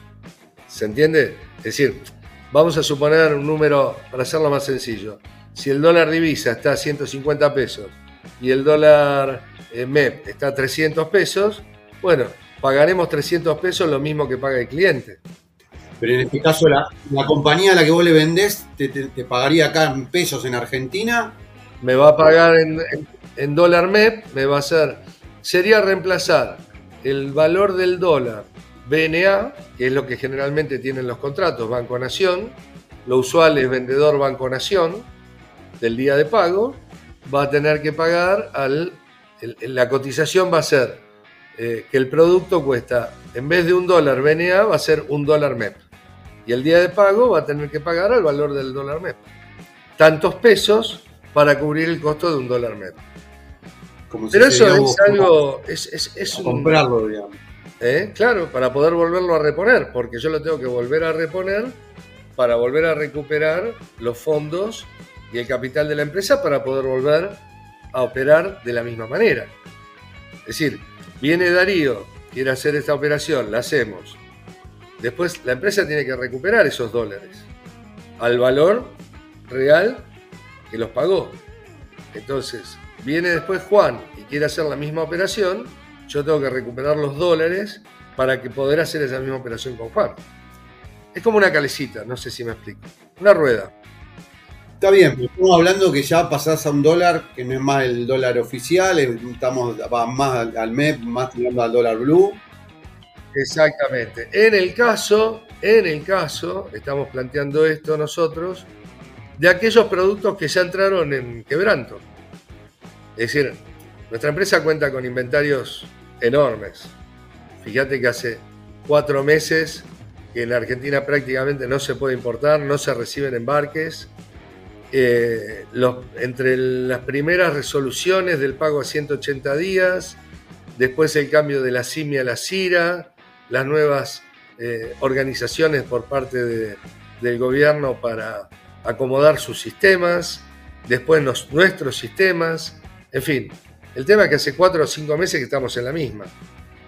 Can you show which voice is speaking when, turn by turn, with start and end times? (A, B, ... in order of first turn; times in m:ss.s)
0:00.7-0:15.2 A
0:16.0-0:21.4 B
0:21.8-0:35.1 A
0:35.8-0:41.0 A
0:41.6-0:45.8 A
0:46.4-0:49.2 A
0:50.0-0:53.0 A
0:54.1-0:55.3 B
0:54.3-0:56.8 A
0:56.3-0:57.3 B
0:57.8-1:01.8 A
1:02.4-1:07.4 A
1:07.9-1:09.5 A
1:10.4-1:14.2 A
1:15.0-1:17.5 A
1:18.2-1:20.1 A
1:20.7-1:21.4 A
1:22.1-1:30.2 A
1:31.1-1:33.7 A
1:34.8-1:42.4 B
1:43.3-1:48.7 A
1:49.4-1:52.0 A
1:53.2-1:56.9 A
1:57.6-2:04.1 A
2:04.9-2:10.2 A
2:10.7-2:26.3 A